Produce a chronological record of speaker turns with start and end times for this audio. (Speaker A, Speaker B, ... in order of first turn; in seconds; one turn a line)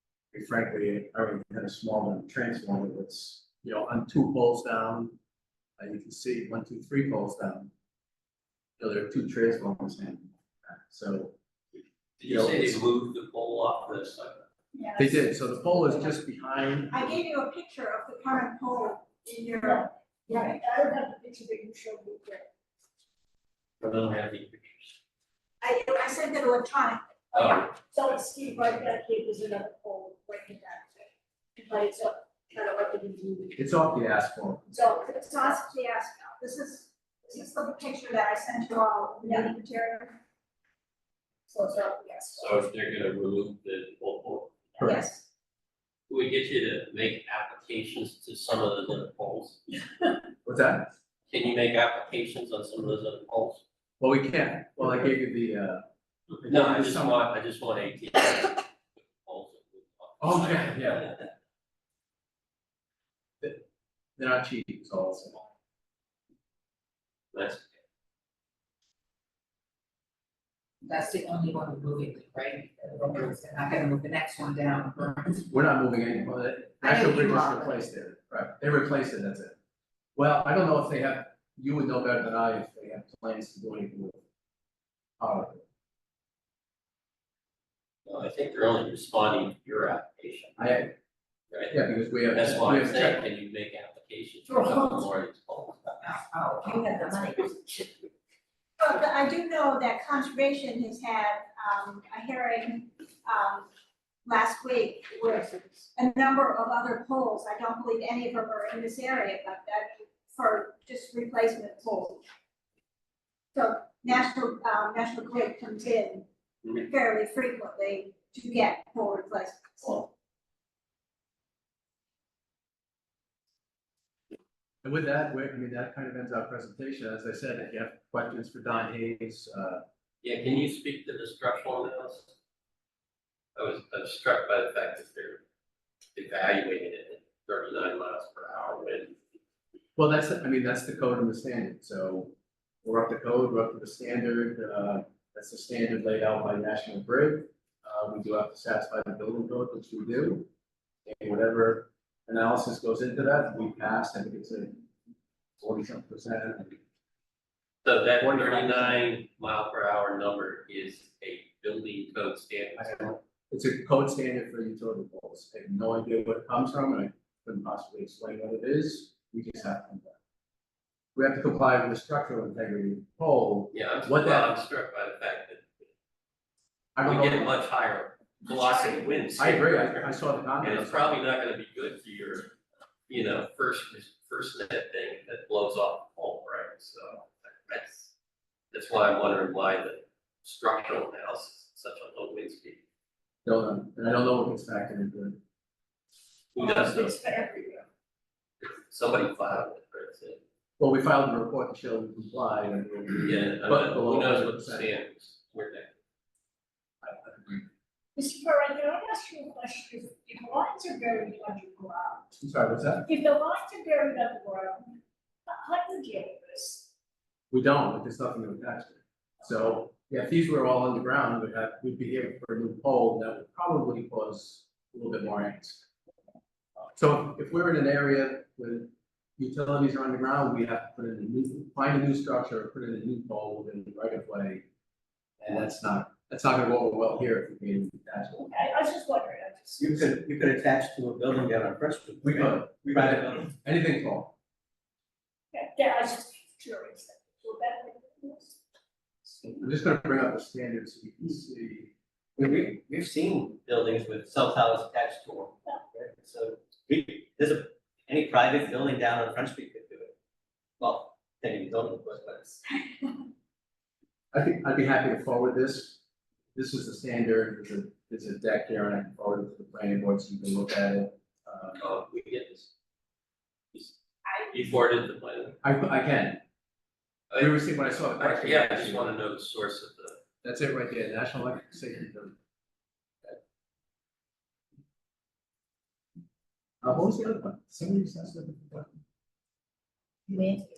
Speaker A: 0.3-5.2
Speaker A: 5.8-7.7
Speaker A: 8.8-11.3
Speaker B: 12.2-14.4
Speaker A: 12.2-12.8
Speaker C: 14.8-15.2
Speaker A: 15.0-17.2
Speaker D: 16.9-20.6
Speaker C: 19.6-22.5
Speaker B: 23.8-25.0
Speaker D: 25.6-27.0
Speaker B: 27.3-27.7
Speaker C: 27.7-33.6
Speaker A: 33.6-34.7
Speaker C: 34.7-35.6
Speaker D: 34.9-40.2
Speaker C: 39.2-39.5
Speaker C: 41.5-42.5
Speaker B: 42.3-44.7
Speaker A: 44.8-45.1
Speaker D: 44.8-45.2
Speaker B: 46.1-49.6
Speaker A: 50.5-50.9
Speaker B: 51.3-53.6
Speaker A: 54.0-55.9
Speaker A: 56.4-57.2
Speaker B: 56.5-61.2
Speaker A: 60.2-61.1
Speaker A: 64.2-65.5
Speaker B: 67.3-67.8
Speaker E: 70.8-75.4
Speaker A: 75.3-79.6
Speaker E: 76.8-77.8
Speaker A: 80.2-84.2
Speaker A: 85.2-85.6
Speaker B: 88.1-90.8
Speaker A: 90.6-90.9
Speaker A: 91.7-93.2
Speaker B: 92.3-96.0
Speaker E: 96.0-97.9
Speaker D: 98.8-103.7
Speaker D: 104.2-112.2
Speaker D: 113.5-120.1
Speaker A: 124.8-129.8
Speaker B: 130.2-132.3
Speaker B: 133.6-135.4
Speaker B: 136.2-139.2
Speaker A: 140.0-150.5
Speaker A: 151.1-154.8
Speaker A: 155.6-156.8
Speaker B: 157.8-163.1
Speaker A: 158.2-159.1
Speaker A: 162.8-170.2
Speaker A: 171.2-174.5
Speaker B: 173.7-175.9
Speaker A: 177.0-177.6
Speaker B: 177.0-182.5
Speaker A: 179.4-181.2
Speaker B: 183.1-188.1
Speaker B: 188.7-192.8
Speaker A: 193.4-195.4
Speaker B: 196.5-197.2
Speaker C: 196.6-197.9
Speaker B: 198.6-200.4
Speaker A: 200.8-204.9
Speaker B: 203.2-205.9
Speaker A: 207.0-207.7
Speaker C: 208.2-212.3
Speaker A: 212.4-213.1
Speaker C: 213.1-216.9
Speaker A: 217.5-225.9
Speaker A: 227.0-234.7
Speaker A: 235.4-238.6
Speaker C: 238.4-239.9
Speaker F: 239.8-243.5
Speaker A: 242.2-244.3
Speaker C: 245.5-248.6
Speaker A: 249.5-252.6
Speaker F: 252.4-260.1
Speaker F: 260.8-262.6
Speaker A: 264.3-266.0
Speaker A: 266.6-271.8
Speaker B: 271.8-272.7
Speaker B: 274.5-275.6
Speaker A: 275.6-276.4
Speaker B: 277.3-280.2
Speaker A: 277.4-279.1
Speaker A: 280.4-282.4
Speaker A: 286.8-288.9
Speaker C: 290.3-290.6